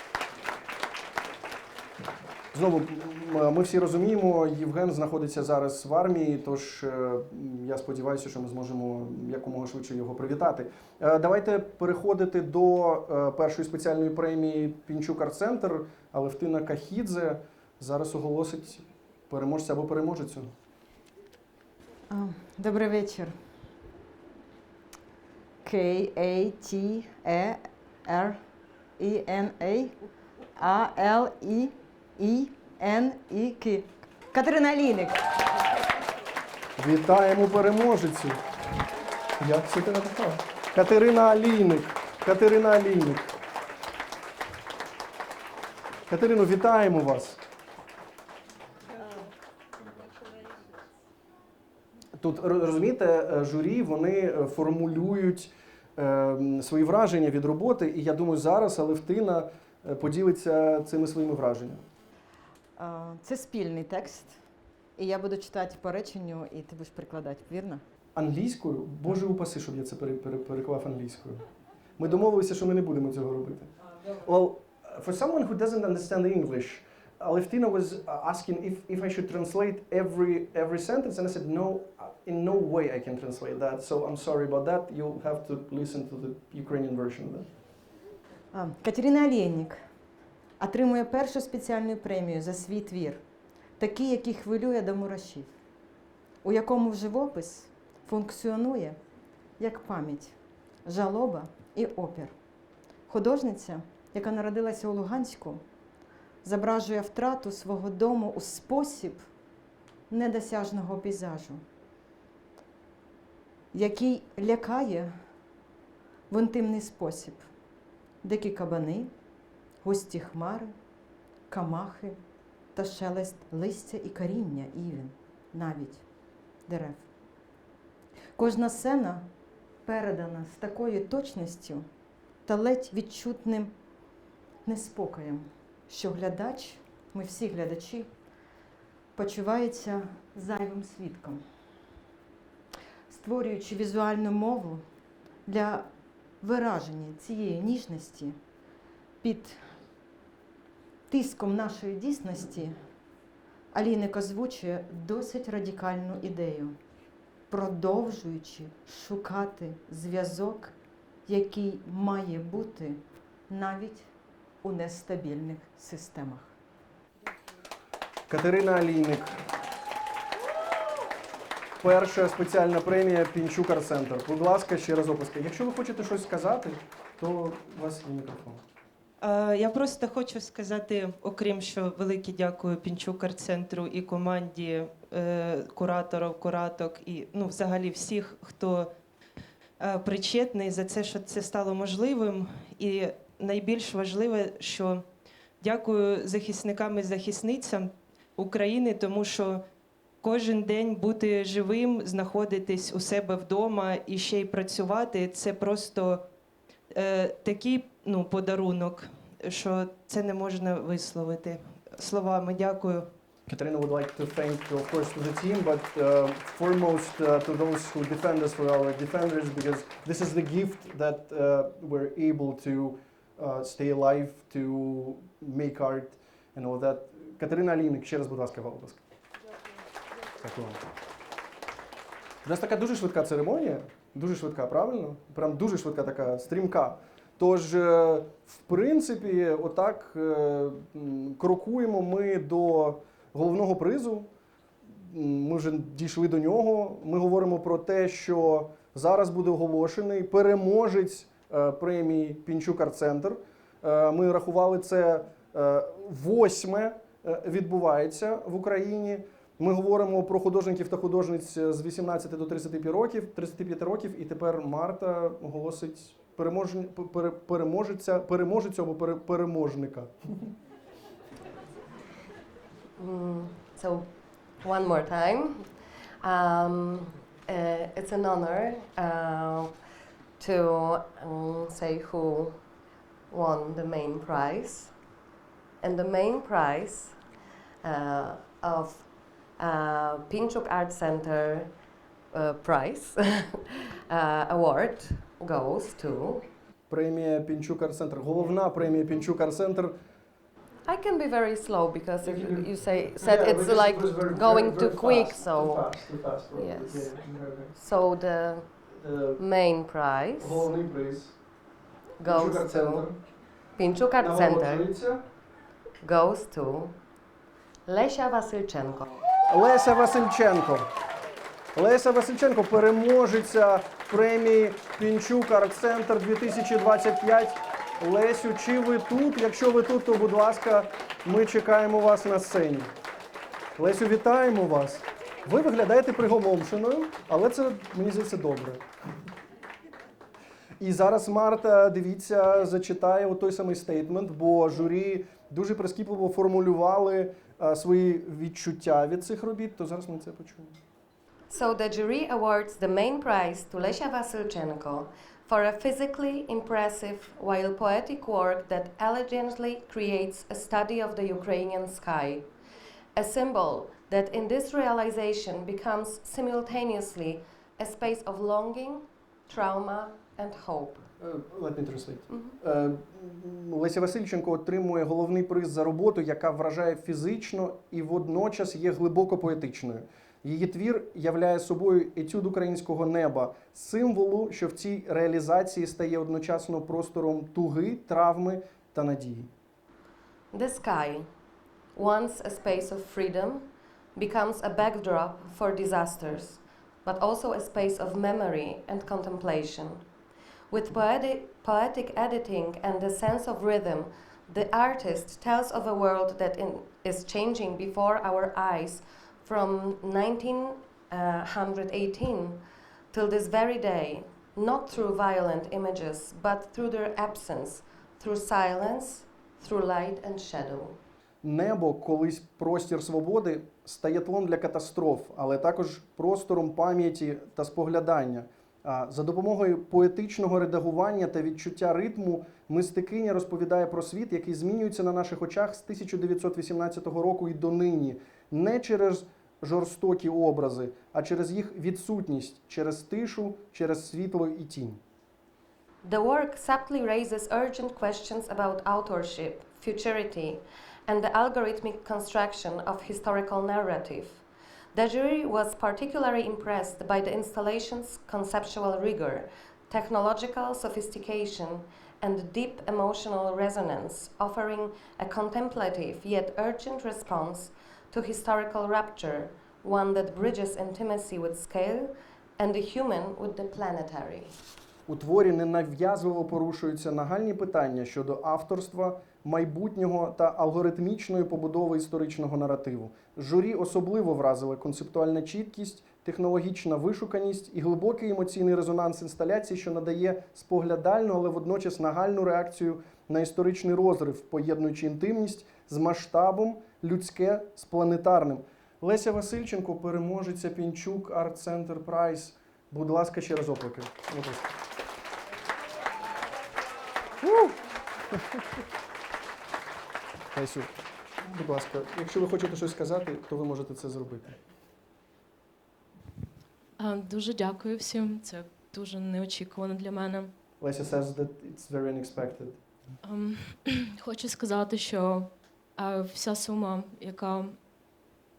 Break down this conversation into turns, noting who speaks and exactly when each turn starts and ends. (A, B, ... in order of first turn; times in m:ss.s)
0:02.5-0:20.5 A
0:22.1-0:23.3 B
0:25.6-0:28.4 B
0:29.0-0:29.9 B
0:30.6-0:35.2 B
0:36.8-0:38.4 A
0:39.4-0:43.3 A
0:46.1-0:47.4 A
0:52.2-1:01.8 A
1:02.8-1:04.4 B
1:05.0-1:07.8 B
1:08.2-1:11.4 A
1:12.0-1:27.5 A
1:28.5-1:29.8 B
1:30.6-1:33.2 B
1:33.8-1:35.5 B
1:36.4-1:39.0 B
1:39.6-1:42.3 B
1:43.1-1:45.6 B
1:46.4-1:49.2 B
1:50.1-1:51.6 B
1:53.7-1:55.1 B
1:56.3-1:57.4 B
1:58.2-1:59.1 B
1:59.8-2:00.7 B
2:01.5-2:02.2 B
2:02.7-2:06.0 B
2:06.7-2:07.0 B
2:08.4-2:09.3 B
2:09.8-2:11.8 B
2:12.4-2:13.7 B
2:14.6-2:18.1 B
2:19.2-2:21.4 B
2:23.1-2:24.8 B
2:25.4-2:25.9 B
2:26.4-2:28.4 B
2:29.2-2:29.7 B
2:31.1-2:32.8 B
2:33.7-2:36.8 B
2:37.5-2:40.7 B
2:41.2-2:44.1 B
2:44.6-2:46.5 B
2:48.3-2:49.4 A
2:51.8-2:58.6 A
2:59.2-3:08.9 C
3:09.8-3:15.1 C
3:15.6-3:19.6 C
3:20.2-3:26.2 C
3:26.9-3:33.1 C
3:33.5-3:49.0 A
3:50.4-3:50.8 A
3:52.4-4:04.3 A
4:04.9-4:30.5 A
4:33.0-4:34.1 D
4:34.6-4:35.7 D
4:36.2-4:39.8 D
4:40.4-4:42.6 D
4:43.3-4:44.9 D
4:45.8-4:47.2 D
4:47.8-4:49.1 D
4:49.6-4:51.7 D
4:52.3-4:56.4 D
4:56.9-5:00.0 A
5:00.8-5:05.9 D
5:02.2-5:07.7 A
5:06.5-5:07.1 D
5:07.7-5:08.7 D
5:08.9-5:09.4 A
5:09.4-5:10.7 D
5:10.4-5:11.4 A
5:12.2-5:13.0 D
5:12.2-5:13.2 A
5:13.8-5:14.9 D
5:14.2-5:15.2 A
5:16.0-5:16.9 D
5:17.9-5:19.1 D
5:19.4-5:20.9 A
5:21.7-5:32.9 A
5:33.8-5:38.8 A
5:40.8-5:50.7 A
5:51.5-6:02.5 D
6:03.1-6:11.1 D
6:11.2-6:29.5 A
6:12.3-6:12.5 D
6:30.5-6:31.3 D
6:31.9-6:40.0 D
6:40.7-7:01.0 D
7:01.4-7:25.0 A
7:26.0-7:34.4 D
7:34.9-7:54.5 D
7:55.1-8:24.8 A
8:27.4-8:27.8 A
8:28.3-8:28.6 A
8:30.5-8:34.6 A
8:37.0-8:40.5 E
8:40.8-8:42.8 A
8:43.2-8:47.8 E